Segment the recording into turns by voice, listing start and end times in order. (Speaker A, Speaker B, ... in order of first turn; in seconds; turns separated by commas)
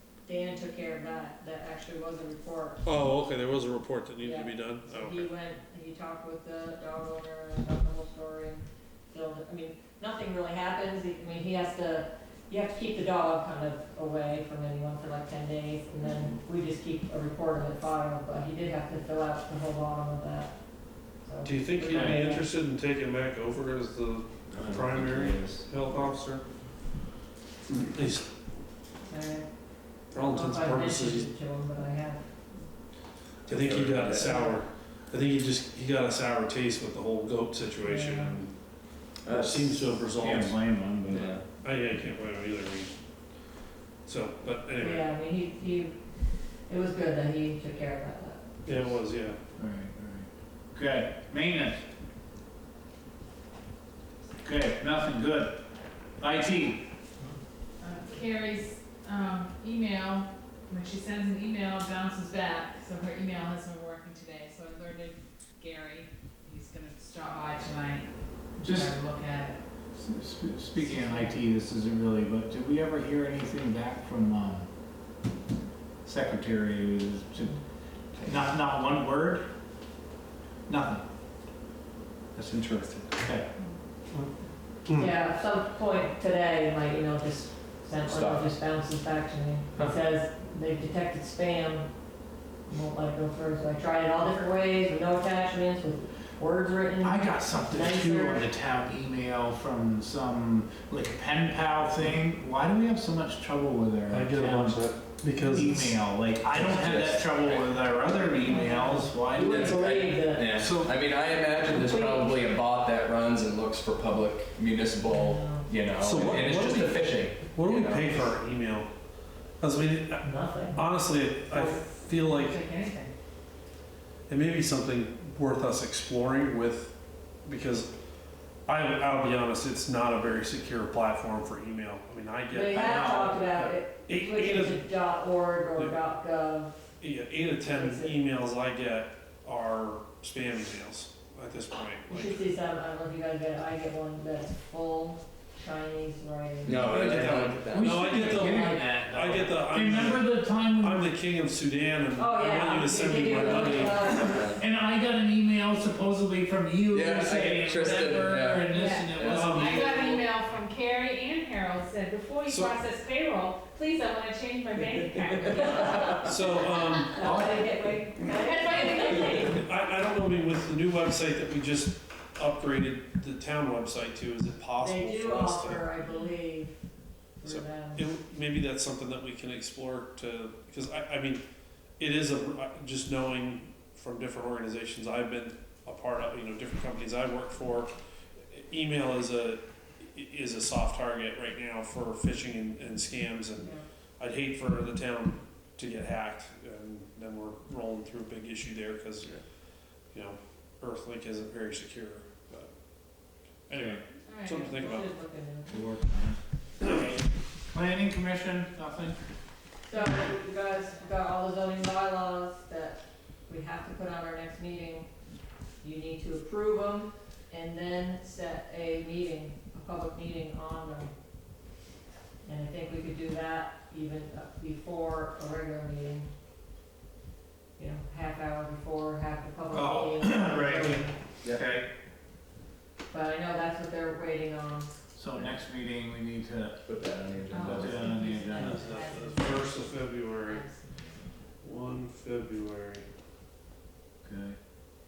Speaker A: 0.2-2.8, Speaker B: 2.8-5.3, Speaker A: 4.2-22.5, Speaker C: 16.0-16.3, Speaker B: 21.4-26.3, Speaker D: 21.9-22.2, Speaker C: 24.5-26.4, Speaker B: 27.7-28.3, Speaker A: 29.1-32.3, Speaker B: 30.1-31.3, Speaker B: 33.5-38.6, Speaker C: 33.5-34.4, Speaker A: 37.8-38.4, Speaker C: 39.2-39.9, Speaker B: 39.3-40.6, Speaker D: 40.2-41.4, Speaker C: 41.0-41.4, Speaker B: 41.5-42.9, Speaker B: 44.0-45.1, Speaker A: 44.8-46.0, Speaker A: 46.7-49.0, Speaker B: 48.6-49.4, Speaker D: 49.5-51.8, Speaker D: 54.4-55.6, Speaker D: 56.2-56.8, Speaker E: 57.8-69.6, Speaker D: 68.6-68.9, Speaker D: 70.0-74.7, Speaker E: 70.7-71.3, Speaker D: 76.0-77.5, Speaker D: 78.2-79.5, Speaker D: 80.7-81.0, Speaker D: 82.3-83.5, Speaker A: 85.0-91.9, Speaker C: 88.1-88.5, Speaker A: 92.7-98.5, Speaker D: 97.0-104.9, Speaker B: 104.1-105.9, Speaker A: 105.4-105.9, Speaker D: 105.5-109.8, Speaker C: 106.5-107.8, Speaker A: 108.4-110.6, Speaker C: 109.4-118.3, Speaker D: 110.5-111.0, Speaker A: 111.5-112.5, Speaker A: 115.0-115.7, Speaker B: 116.0-119.0, Speaker B: 119.5-122.6, Speaker A: 120.2-120.8, Speaker E: 121.6-123.1, Speaker B: 124.3-127.9, Speaker B: 128.7-133.3, Speaker A: 132.5-136.9, Speaker D: 132.7-133.7, Speaker B: 134.1-134.9, Speaker B: 137.0-142.4, Speaker A: 137.6-138.2, Speaker A: 142.1-146.9, Speaker C: 146.6-148.2, Speaker B: 146.7-154.1, Speaker D: 147.7-151.1, Speaker A: 148.0-148.9, Speaker A: 152.1-154.6, Speaker D: 153.8-160.2, Speaker C: 154.3-154.6, Speaker C: 156.9-159.7, Speaker E: 158.6-166.1, Speaker B: 159.2-159.9, Speaker B: 162.5-162.8, Speaker A: 165.5-166.4, Speaker B: 166.2-167.2, Speaker A: 167.1-169.6, Speaker E: 168.2-169.6, Speaker B: 169.5-175.9, Speaker A: 174.8-176.8, Speaker A: 177.4-178.1, Speaker B: 177.4-181.4, Speaker B: 182.0-205.1, Speaker A: 193.6-193.8, Speaker D: 203.7-204.0, Speaker E: 204.2-204.8, Speaker A: 204.5-205.9, Speaker D: 205.7-206.4, Speaker B: 206.8-207.2, Speaker D: 207.7-209.2, Speaker A: 209.8-215.1, Speaker E: 209.9-210.9, Speaker A: 215.8-221.1, Speaker A: 222.4-226.3, Speaker A: 227.8-231.2, Speaker D: 229.7-231.9, Speaker A: 233.1-234.9, Speaker D: 235.1-236.8, Speaker C: 235.3-235.6, Speaker C: 236.8-238.2, Speaker D: 237.5-239.0, Speaker E: 237.5-241.2, Speaker B: 238.6-240.7, Speaker B: 241.6-243.1, Speaker D: 244.2-244.6